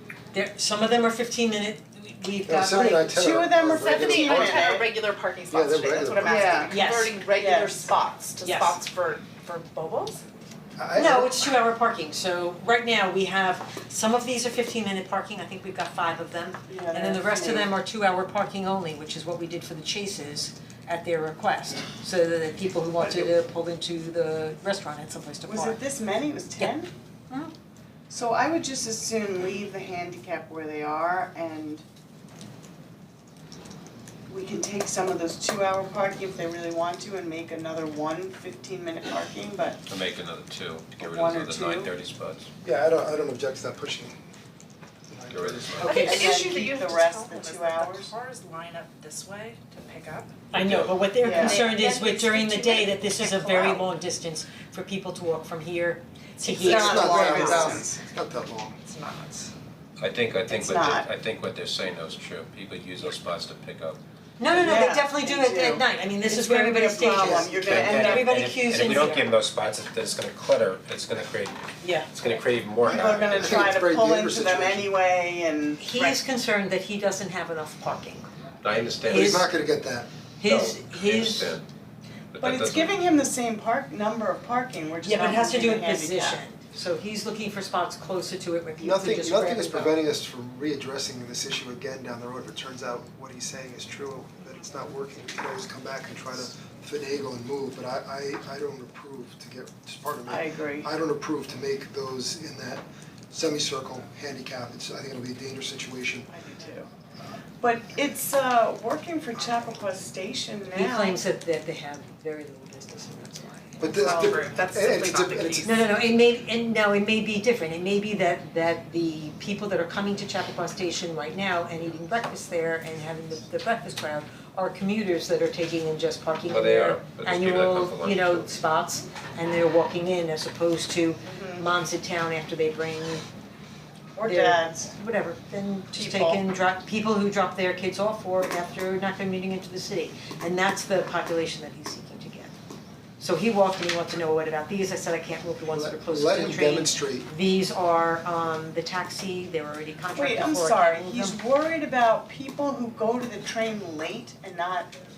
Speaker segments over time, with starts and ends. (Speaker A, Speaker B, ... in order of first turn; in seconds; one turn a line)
Speaker A: 0.3-3.1
Speaker B: 2.5-4.8
Speaker C: 3.0-4.9
Speaker D: 3.7-10.2
Speaker B: 5.5-6.7
Speaker C: 6.2-6.7
Speaker A: 6.7-7.1
Speaker C: 7.3-7.8
Speaker A: 8.4-8.8
Speaker B: 10.8-11.3
Speaker A: 10.9-25.8
Speaker C: 16.7-17.7
Speaker C: 23.0-23.3
Speaker C: 25.4-26.9
Speaker C: 28.1-31.8
Speaker C: 34.3-39.8
Speaker E: 39.9-42.5
Speaker C: 41.0-41.9
Speaker B: 42.6-44.1
Speaker B: 45.1-45.9
Speaker E: 45.3-46.0
Speaker A: 45.8-46.4
Speaker D: 45.8-50.3
Speaker C: 45.9-48.1
Speaker A: 50.5-57.8
Speaker E: 50.5-51.0
Speaker C: 51.2-51.7
Speaker D: 51.2-53.9
Speaker C: 56.5-58.0
Speaker B: 56.6-58.8
Speaker D: 58.8-59.5
Speaker E: 60.0-64.0
Speaker C: 60.5-61.1
Speaker A: 64.4-69.3
Speaker C: 64.5-68.6
Speaker E: 67.2-73.7
Speaker A: 71.8-72.1
Speaker C: 72.8-76.2
Speaker B: 72.9-74.9
Speaker A: 75.8-78.3
Speaker E: 78.6-79.5
Speaker A: 79.0-79.5
Speaker B: 79.1-80.1
Speaker A: 80.4-81.6
Speaker E: 80.4-81.6
Speaker E: 82.3-83.0
Speaker C: 82.4-86.4
Speaker A: 85.0-90.0
Speaker B: 88.8-106.3
Speaker C: 100.2-100.9
Speaker C: 106.3-106.9
Speaker C: 107.6-111.2
Speaker A: 110.7-113.8
Speaker B: 113.8-115.7
Speaker D: 114.0-115.9
Speaker C: 114.0-114.4
Speaker A: 115.6-133.2
Speaker E: 126.5-128.5
Speaker C: 131.3-131.7
Speaker C: 134.2-134.9
Speaker A: 134.2-142.5
Speaker C: 135.9-136.4
Speaker A: 143.2-151.4
Speaker B: 145.7-147.3
Speaker C: 150.1-154.9